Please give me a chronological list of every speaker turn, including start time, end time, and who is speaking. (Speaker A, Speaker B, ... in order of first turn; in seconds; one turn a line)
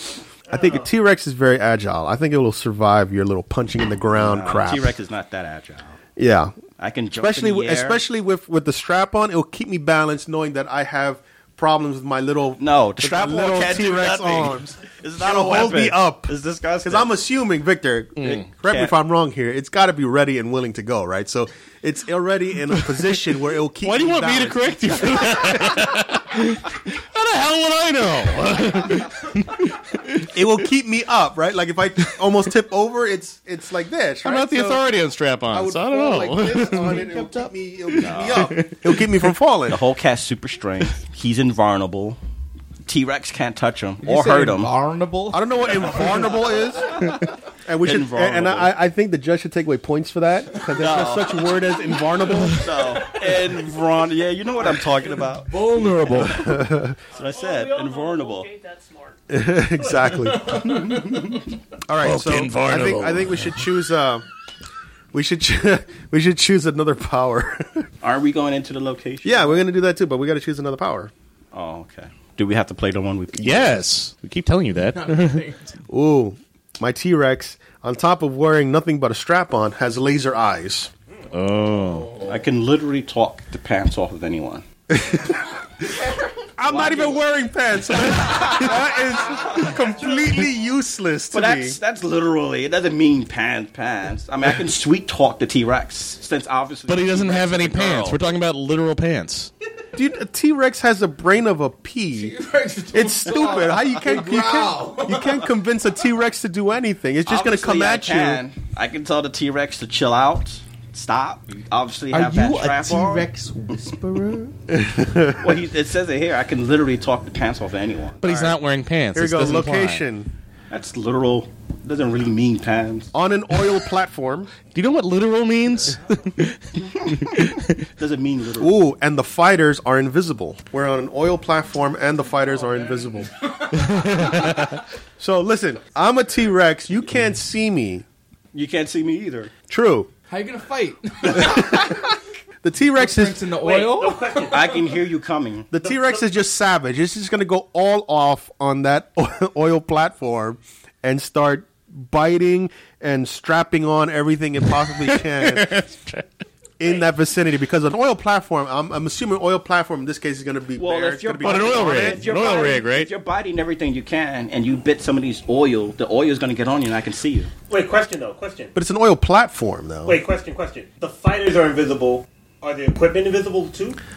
Speaker A: 0.5-5.0
Speaker B: 0.5-0.9
Speaker C: 4.1-6.0
Speaker A: 6.2-6.5
Speaker C: 6.8-8.0
Speaker A: 7.2-25.9
Speaker C: 12.6-17.2
Speaker D: 18.2-18.4
Speaker C: 18.5-18.9
Speaker D: 22.7-23.1
Speaker D: 23.8-30.3
Speaker A: 30.3-34.9
Speaker D: 34.2-39.1
Speaker A: 35.5-39.8
Speaker C: 38.0-38.5
Speaker C: 39.7-42.2
Speaker C: 42.9-44.7
Speaker E: 44.0-45.8
Speaker A: 45.3-47.1
Speaker A: 47.6-52.8
Speaker C: 47.8-48.7
Speaker C: 50.7-51.6
Speaker C: 52.5-55.5
Speaker E: 55.2-56.5
Speaker A: 56.3-57.0
Speaker C: 57.1-58.5
Speaker F: 57.1-59.2
Speaker A: 59.3-61.0
Speaker B: 59.8-60.2
Speaker D: 60.8-61.2
Speaker A: 61.9-64.3
Speaker D: 62.0-63.6
Speaker A: 65.1-67.9
Speaker C: 68.0-69.6
Speaker A: 69.2-71.1
Speaker C: 71.5-73.8
Speaker D: 73.4-75.4
Speaker E: 74.9-75.7
Speaker A: 75.9-80.9
Speaker D: 81.3-82.2
Speaker E: 81.9-82.4
Speaker C: 82.3-84.6
Speaker A: 84.9-85.4
Speaker A: 86.6-91.8
Speaker C: 86.6-87.2
Speaker C: 88.1-88.7
Speaker C: 91.3-98.2
Speaker D: 96.9-99.5
Speaker A: 99.9-102.3
Speaker E: 102.1-105.4
Speaker A: 102.9-108.4
Speaker C: 107.3-113.3
Speaker E: 112.1-114.5
Speaker A: 114.7-115.5
Speaker C: 115.4-118.4
Speaker D: 118.2-120.0
Speaker A: 118.2-118.5
Speaker A: 119.1-120.3
Speaker C: 120.7-123.1
Speaker A: 123.1-124.5
Speaker D: 124.7-127.8
Speaker C: 128.0-128.8
Speaker A: 128.6-133.3
Speaker E: 132.6-134.3
Speaker D: 133.9-134.7
Speaker A: 135.2-138.1
Speaker C: 138.5-139.5
Speaker A: 139.7-140.1
Speaker E: 140.3-141.9
Speaker A: 141.3-141.9
Speaker A: 142.6-143.5
Speaker E: 142.9-144.6
Speaker B: 143.6-144.8
Speaker C: 144.4-145.7
Speaker A: 145.7-155.8
Speaker B: 145.8-146.3
Speaker D: 155.1-156.3
Speaker A: 156.8-162.5
Speaker C: 160.8-167.5
Speaker D: 161.4-163.1
Speaker B: 167.7-168.7
Speaker A: 168.7-170.2
Speaker B: 170.1-174.0